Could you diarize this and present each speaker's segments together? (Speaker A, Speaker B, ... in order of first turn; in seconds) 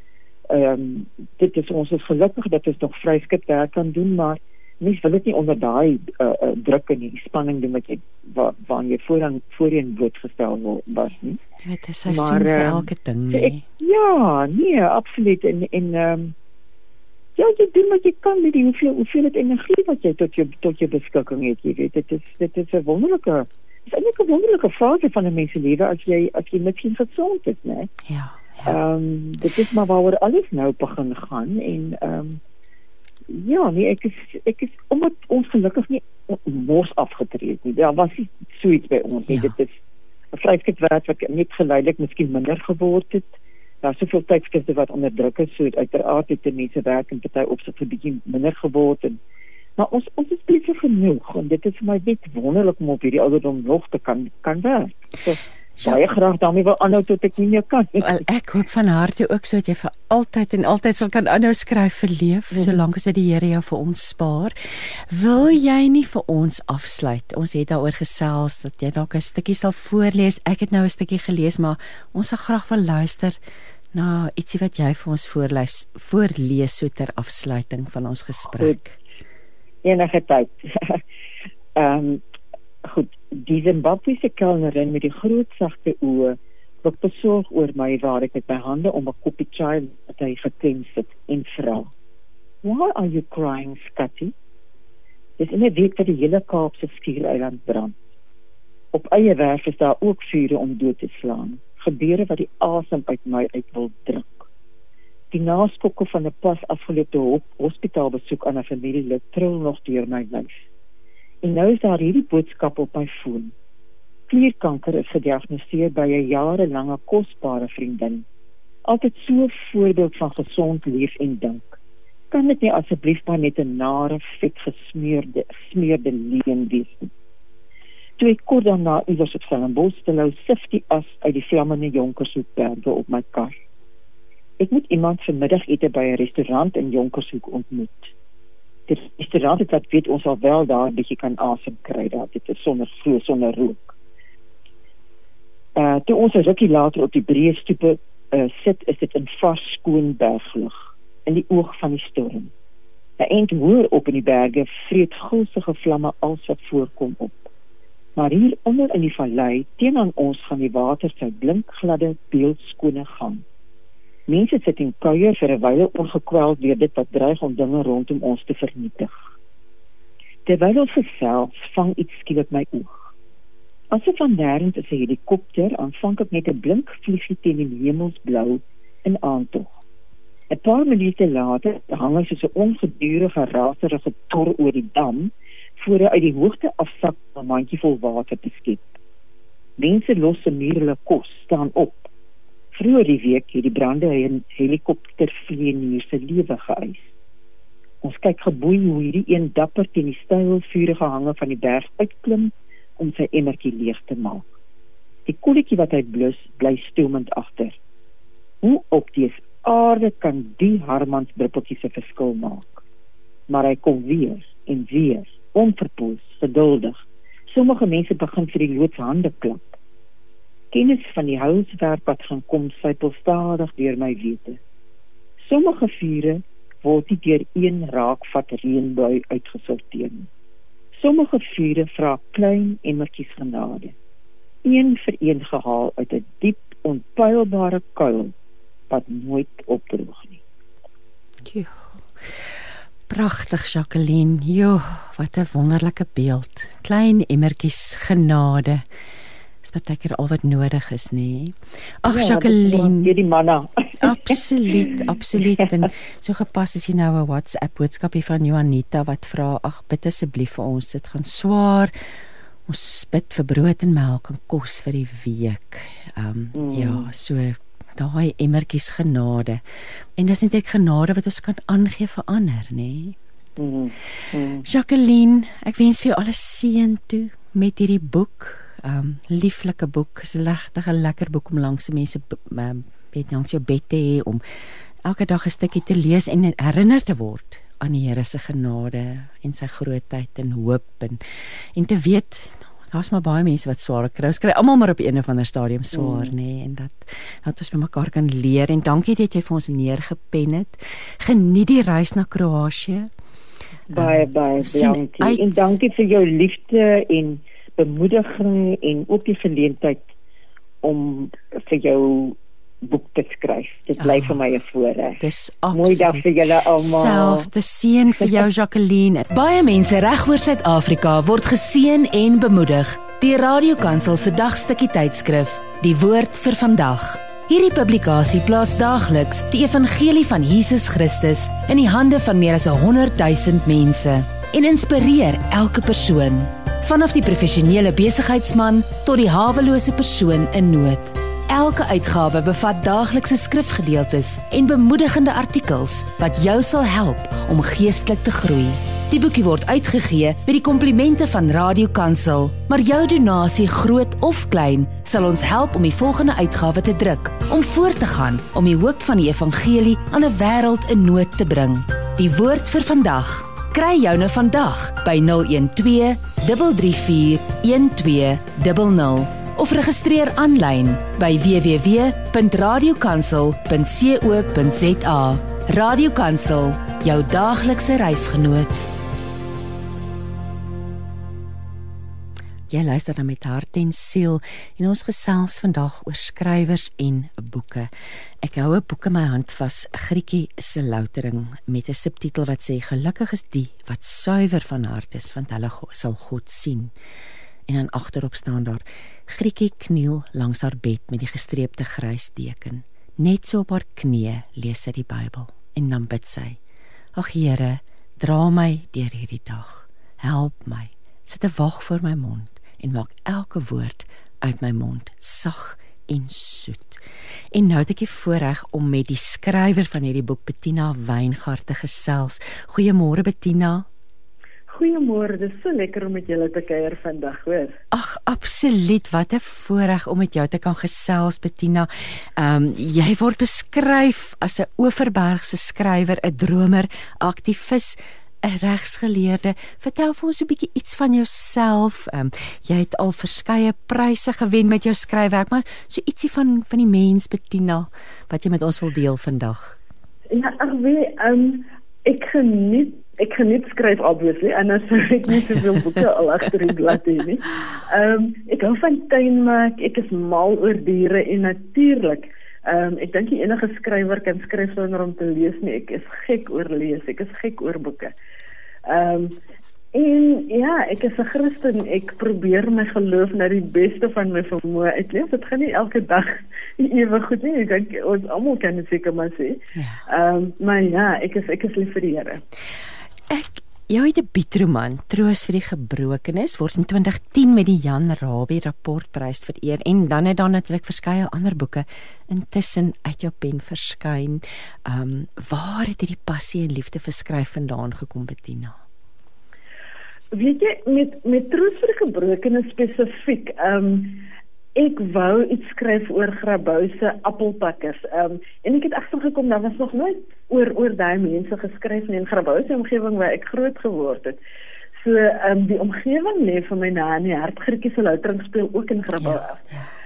Speaker A: 0.5-11.4, 12.1-16.3, 17.4-27.9, 28.6-32.4, 33.3-39.8, 40.3-43.3, 43.8-49.2, 49.8-58.2, 62.5-62.8, 79.8-81.0, 81.8-82.2, 82.8-91.9, 92.6-94.3, 95.4-97.9, 98.9-104.5, 105.3-110.6, 111.4-113.5, 114.3-118.2, 118.8-121.8, 122.3-127.1, 128.2-133.5, 134.6-138.1, 138.9-143.9, 145.8-152.5, 153.2-157.5, 158.2-163.4, 164.3-169.2, 170.4-173.1, 173.9-179.7, 180.5-188.9, 189.8-192.1, 192.7-197.1, 198.0-204.4, 205.2-207.8, 208.6-212.8, 213.5-219.8, 220.7-224.6, 225.5-230.3, 230.9-233.9, 234.6-238.3, 238.9-240.4, 252.1-254.4, 266.5-267.1, 273.6-274.6, 295.9-296.3, 303.9-310.1, 310.8-317.5
Speaker B: 11.6-13.6, 28.1-28.8, 58.0-73.4, 73.9-79.0, 241.4-242.3, 243.1-248.8, 249.6-253.1, 254.0-261.9, 262.7-269.6, 270.2-273.2, 274.6-284.4, 285.0-291.2, 291.7-303.1, 303.9-305.7, 314.0-314.3, 315.2-319.3, 382.7-396.9, 397.7-406.6, 407.1-423.9, 427.9-449.8, 483.3-498.8, 519.1-519.9
Speaker C: 319.3-378.9
Speaker D: 424.7-427.8, 450.3-468.1, 468.9-469.4, 469.9-482.4, 500.3-504.2, 504.7-514.4, 515.0-519.6